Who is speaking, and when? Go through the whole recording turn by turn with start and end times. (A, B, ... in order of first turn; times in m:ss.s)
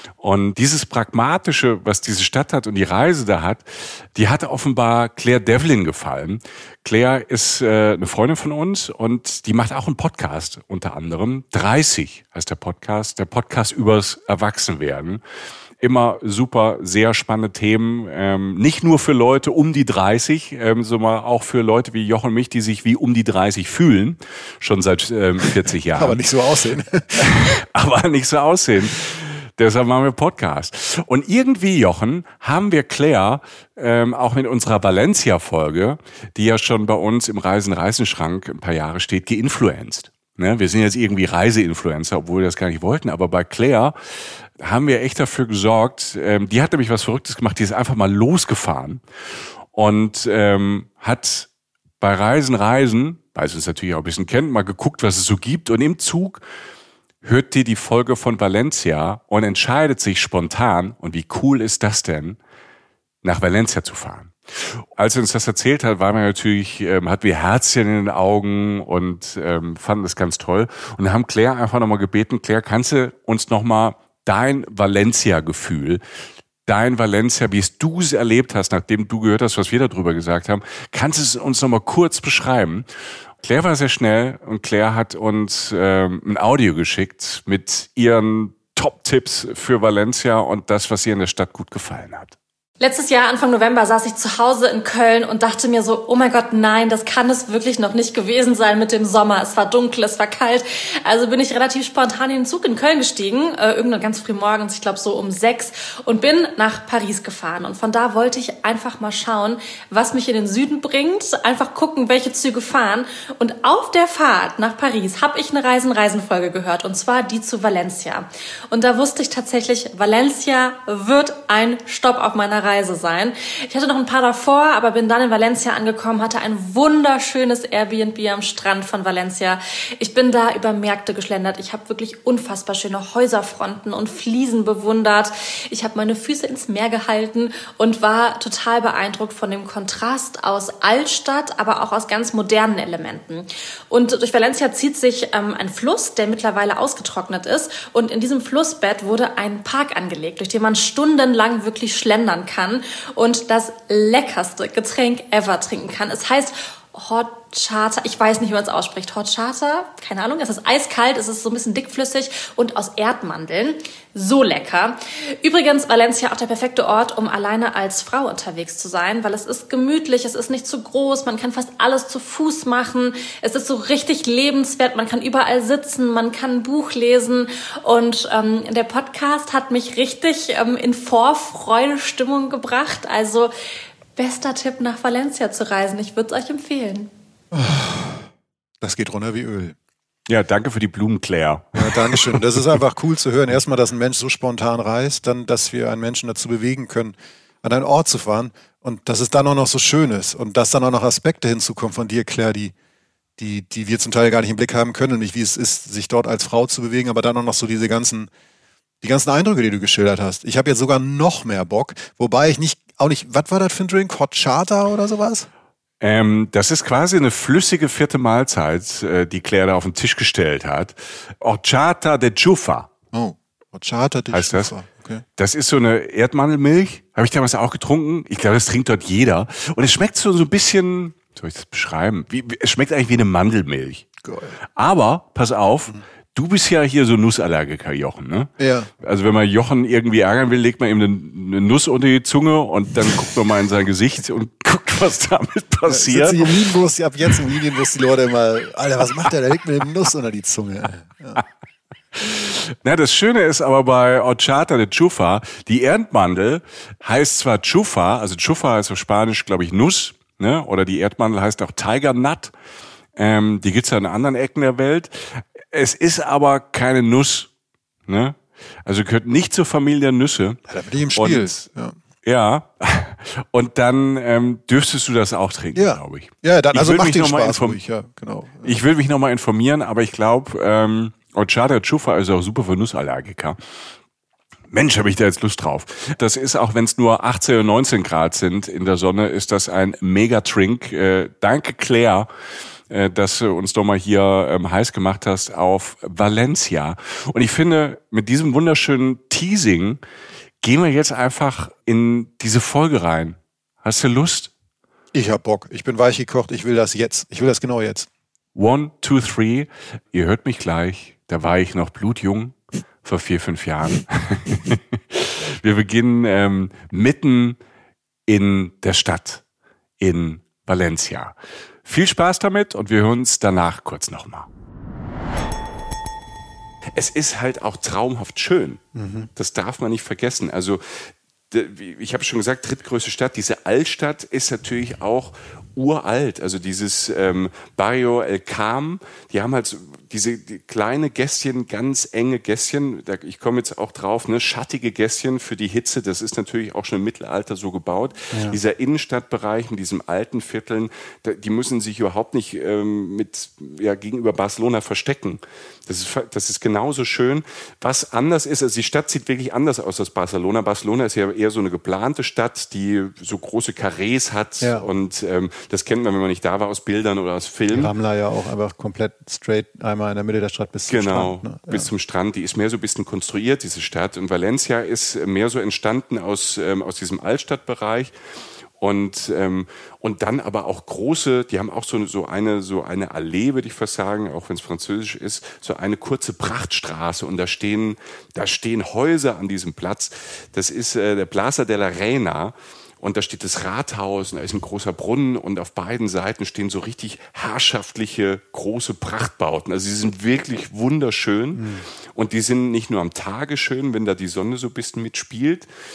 0:00.2-0:03.6 A
0:04.2-0:15.2 A
0:15.8-0:26.2 A
0:25.9-0:27.4 B
0:27.2-0:44.0 A
0:44.6-0:49.0 A
0:49.7-0:51.5 A
0:52.0-0:56.4 A
0:57.2-1:02.4 A
1:03.2-1:16.0 A
1:16.7-1:22.9 A
1:23.4-1:32.4 A
1:32.8-3:03.5 C
3:04.2-3:07.1 C
3:07.5-3:08.2 B
3:08.8-3:09.8 B
3:10.3-3:12.4 A
3:11.8-3:22.7 B
3:23.4-3:28.3 B
3:29.0-3:35.5 B
3:36.0-3:42.9 A
3:43.1-3:45.2 B
3:44.3-3:44.7 A
3:45.4-3:54.1 A
3:54.2-3:54.6 B
3:54.8-3:58.5 A
3:58.6-3:58.9 B
3:59.0-4:06.6 A
4:05.9-4:11.4 B
4:12.2-4:22.5 A
4:23.2-4:27.5 A
4:28.1-4:30.6 A
4:30.7-4:32.0 B
4:31.2-4:31.7 A
4:32.2-4:37.8 A
4:35.7-4:38.8 B
4:38.6-4:43.6 A
4:44.7-4:52.3 A
4:52.9-5:00.0 A
5:00.6-5:04.5 A
5:05.1-5:08.1 B
5:08.6-5:17.6 A
5:18.3-5:19.4 A
5:20.0-5:24.5 A
5:27.0-5:28.8 A
5:29.0-5:29.3 B
5:29.4-6:07.9 A
5:48.3-5:48.6 B
6:04.6-6:04.9 B
6:07.7-6:11.9 B
6:10.9-6:18.1 A
6:18.8-6:45.7 A
6:41.6-6:41.9 B